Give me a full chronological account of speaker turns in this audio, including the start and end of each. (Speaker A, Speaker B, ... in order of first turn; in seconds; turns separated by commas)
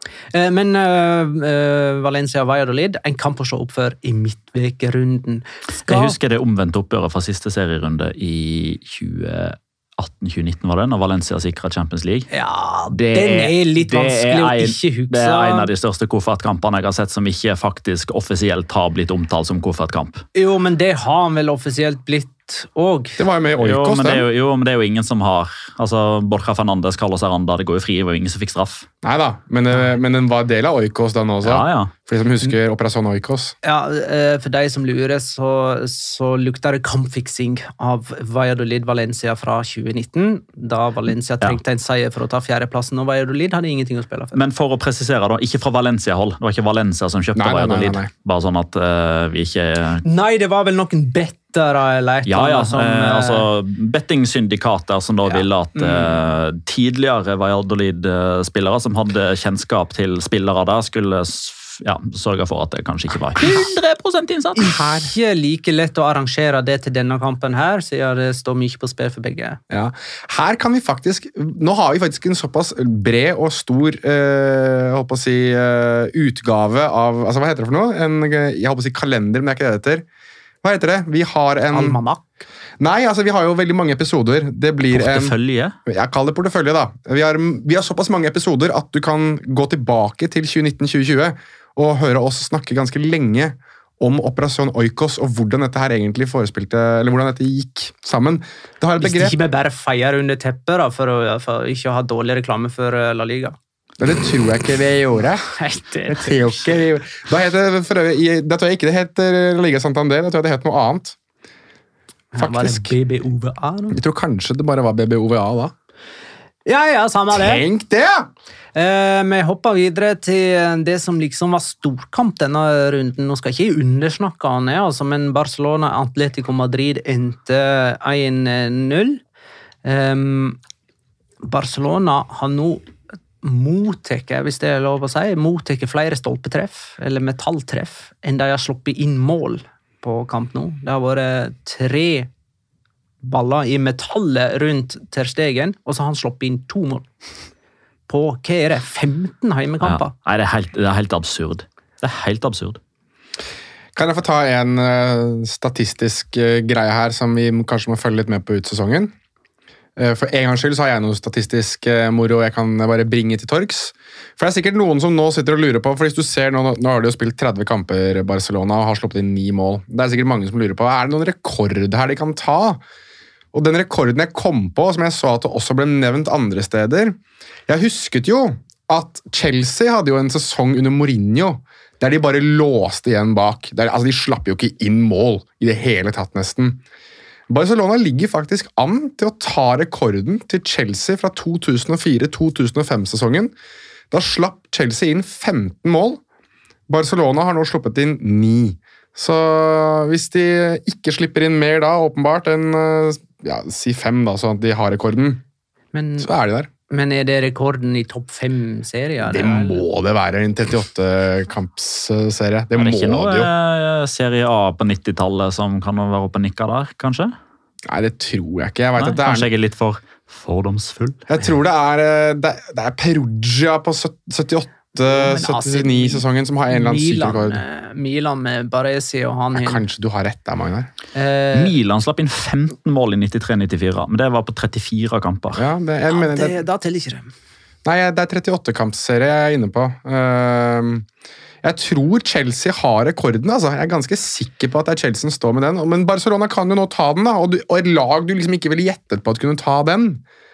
Speaker A: 0.3-6.1, Speaker B: 5.8-12.3, Speaker A: 12.3-15.7, Speaker B: 12.9-20.2, Speaker A: 20.4-23.2, Speaker C: 23.2-24.2, Speaker B: 23.6-28.9, Speaker C: 29.0-33.5, Speaker B: 31.4-31.9, Speaker A: 33.6-44.4, Speaker B: 44.3-50.0, Speaker C: 47.4-48.1, Speaker A: 50.0-53.5, Speaker B: 52.2-64.7, Speaker C: 55.8-56.1, Speaker A: 64.6-69.6, Speaker C: 64.6-65.1, Speaker C: 69.7-80.0, Speaker C: 80.6-82.0, Speaker A: 81.7-82.2, Speaker C: 82.8-85.3, Speaker B: 84.9-85.7, Speaker C: 85.9-99.3, Speaker A: 99.0-103.5, Speaker C: 104.0-105.4, Speaker A: 105.6-106.7, Speaker C: 106.1-111.2, Speaker A: 112.3-114.0, Speaker C: 112.4-112.9, Speaker C: 113.9-115.7, Speaker A: 116.7-117.6, Speaker C: 117.3-118.3, Speaker A: 118.7-129.2, Speaker A: 129.8-130.6, Speaker A: 131.4-132.8, Speaker A: 133.4-142.3, Speaker A: 143.2-147.1, Speaker A: 148.1-150.1, Speaker B: 149.8-152.8, Speaker C: 153.9-159.1, Speaker C: 159.9-172.8, Speaker C: 173.5-177.2, Speaker C: 177.7-186.8, Speaker C: 187.5-193.5, Speaker C: 194.1-196.2, Speaker C: 196.9-205.4, Speaker A: 205.9-206.3, Speaker C: 206.2-206.7, Speaker A: 206.9-209.8, Speaker C: 209.2-213.5, Speaker B: 212.8-217.3, Speaker C: 217.9-219.5, Speaker B: 219.0-221.2, Speaker C: 221.3-227.6, Speaker A: 225.0-229.8, Speaker C: 229.5-230.9, Speaker A: 231.1-231.7, Speaker B: 231.5-235.6, Speaker C: 235.5-236.6, Speaker A: 236.1-237.3, Speaker C: 237.8-241.1, Speaker C: 241.6-250.2